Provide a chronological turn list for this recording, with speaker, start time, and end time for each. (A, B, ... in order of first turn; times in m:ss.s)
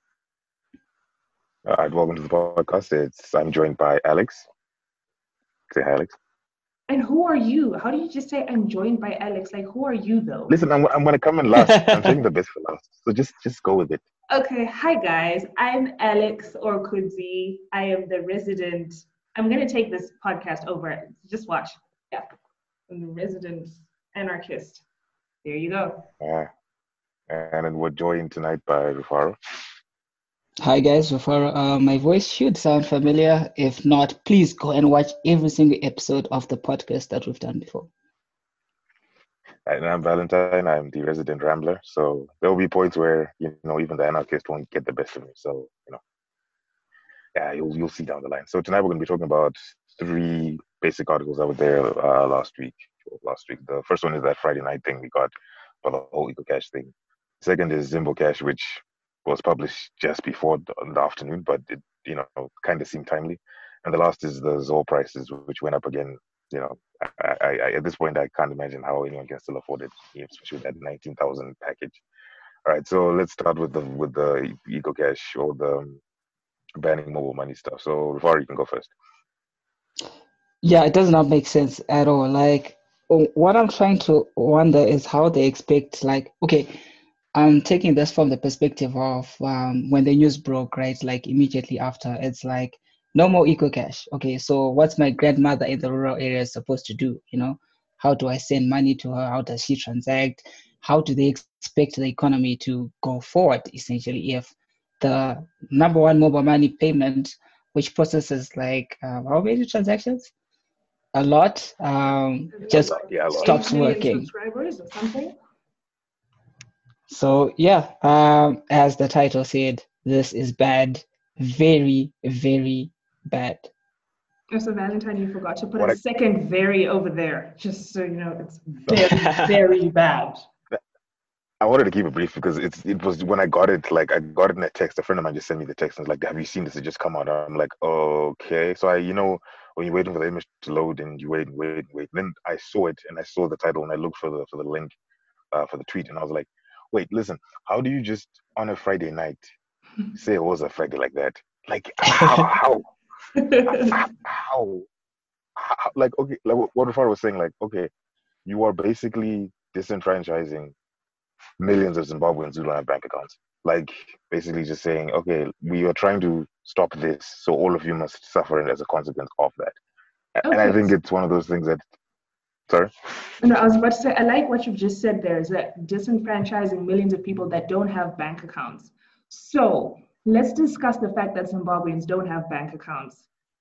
0:01.6-0:04.5 A
0:05.7-0:06.1 A
0:06.9-0:10.6 B
0:10.5-0:14.0 A
0:11.6-0:12.2 C
0:14.3-0:22.3 B
0:22.9-0:24.8 B
0:25.4-0:26.1 B
0:26.2-0:26.5 A
0:27.3-0:29.4 A
0:30.6-0:37.9 C
0:39.7-0:46.0 A
0:47.4-0:55.3 A
0:55.8-1:12.0 A
1:12.6-1:16.0 A
1:16.8-1:18.9 A
1:20.6-1:26.8 C
1:27.3-1:50.3 C
1:51.1-1:54.3 C
1:52.5-1:55.4 B
1:52.7-1:53.6 A
1:57.1-2:03.7 C
2:04.5-2:10.4 B
2:08.9-2:09.6 C
2:11.6-2:24.9 A
2:25.5-2:29.4 A
2:30.1-2:32.8 A
2:32.1-2:32.5 C
2:33.4-2:33.9 B
2:33.6-2:34.9 A
2:35.6-2:37.9 A
2:38.5-2:40.7 A
2:41.6-2:49.8 A
2:50.4-2:51.8 A
2:50.4-2:50.9 B
2:53.4-3:03.2 B